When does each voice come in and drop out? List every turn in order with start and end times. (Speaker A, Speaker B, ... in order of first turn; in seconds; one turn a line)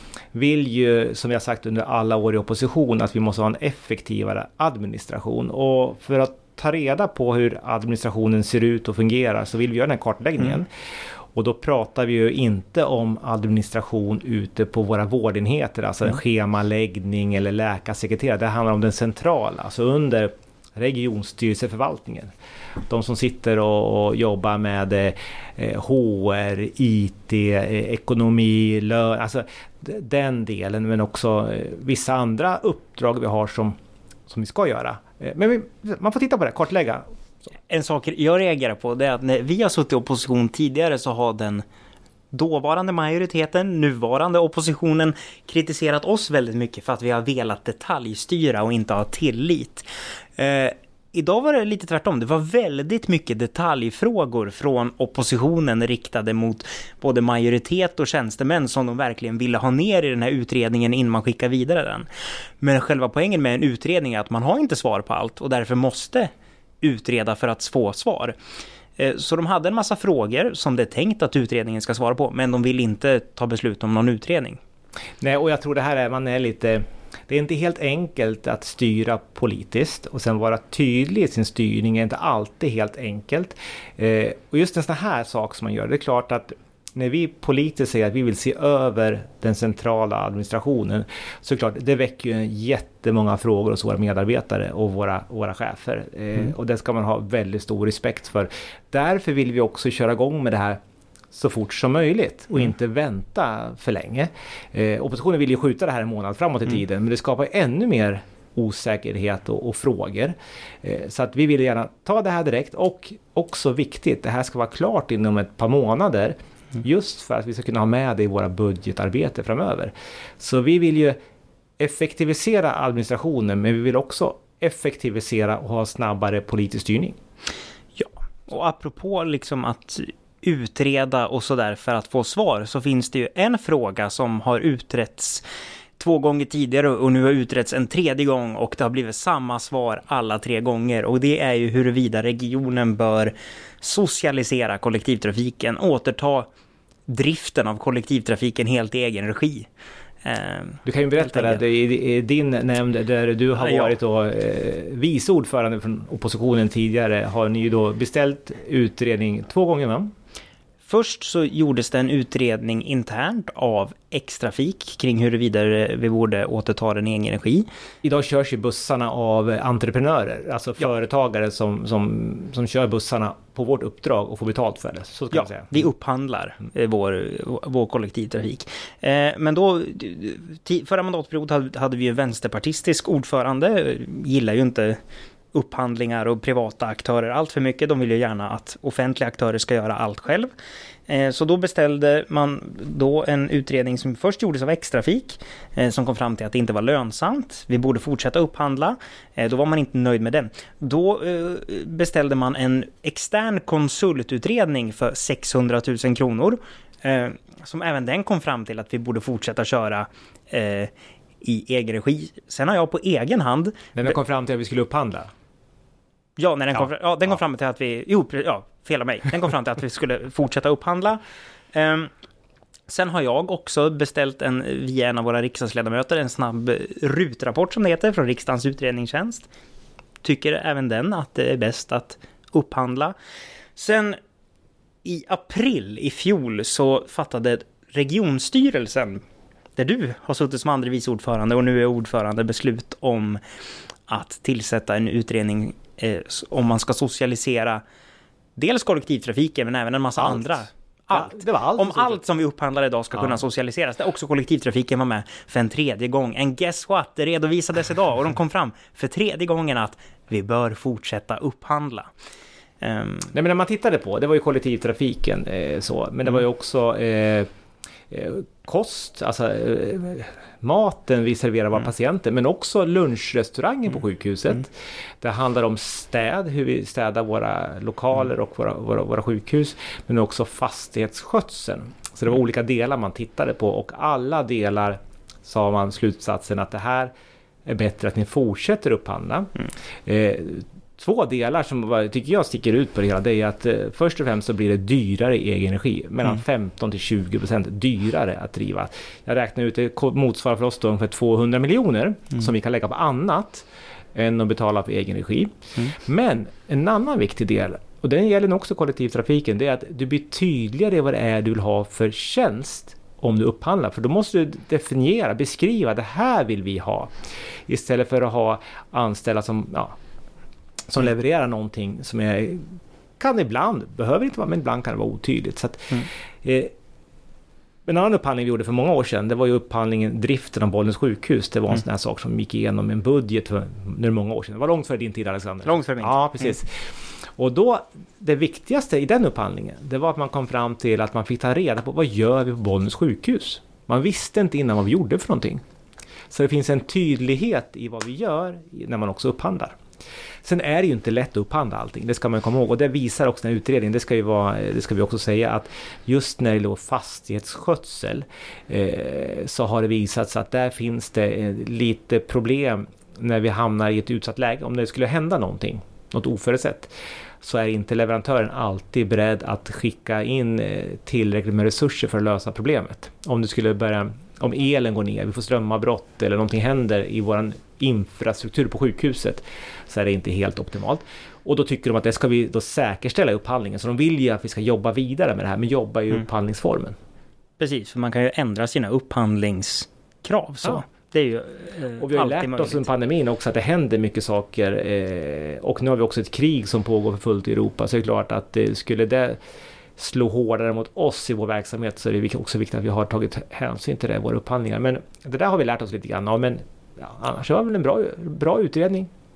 Speaker A: 0.3-10.7
Speaker A: 11.3-22.3
Speaker A: 22.9-33.8
Speaker A: 34.3-37.0
Speaker B: 37.7-41.6
Speaker B: 42.3-62.1
Speaker B: 62.6-66.3
Speaker B: 66.8-68.3
Speaker B: 69.0-74.6
Speaker A: 75.2-100.8
Speaker A: 101.3-121.2
Speaker A: 121.8-127.2
Speaker B: 128.0-135.4
Speaker B: 136.0-146.5
Speaker B: 147.1-149.7
Speaker B: 150.2-151.6
Speaker A: 150.8-160.1
Speaker B: 153.6-153.9
Speaker B: 160.9-167.7
Speaker A: 168.0-175.8
Speaker B: 175.3-185.0
Speaker B: 185.5-190.5
Speaker B: 191.1-214.1
Speaker A: 213.9-215.3
Speaker B: 216.4-221.2
Speaker B: 221.7-222.1
Speaker B: 222.9-229.5
Speaker B: 230.2-233.1
Speaker B: 233.8-234.2
Speaker B: 235.0-239.2
Speaker B: 239.8-243.4
Speaker B: 244.1-247.8
Speaker B: 248.6-262.1
Speaker A: 250.2-252.2
Speaker B: 262.8-263.3
Speaker A: 263.3-267.5
Speaker A: 268.1-287.1
Speaker A: 287.6-317.1
Speaker A: 317.7-319.9
Speaker A: 320.9-326.7
Speaker A: 327.9-345.6
Speaker B: 335.6-336.5
Speaker A: 346.3-349.8
Speaker A: 350.4-366.9
Speaker A: 367.4-386.9
Speaker B: 387.6-392.8
Speaker A: 392.0-399.4
Speaker A: 400.0-409.1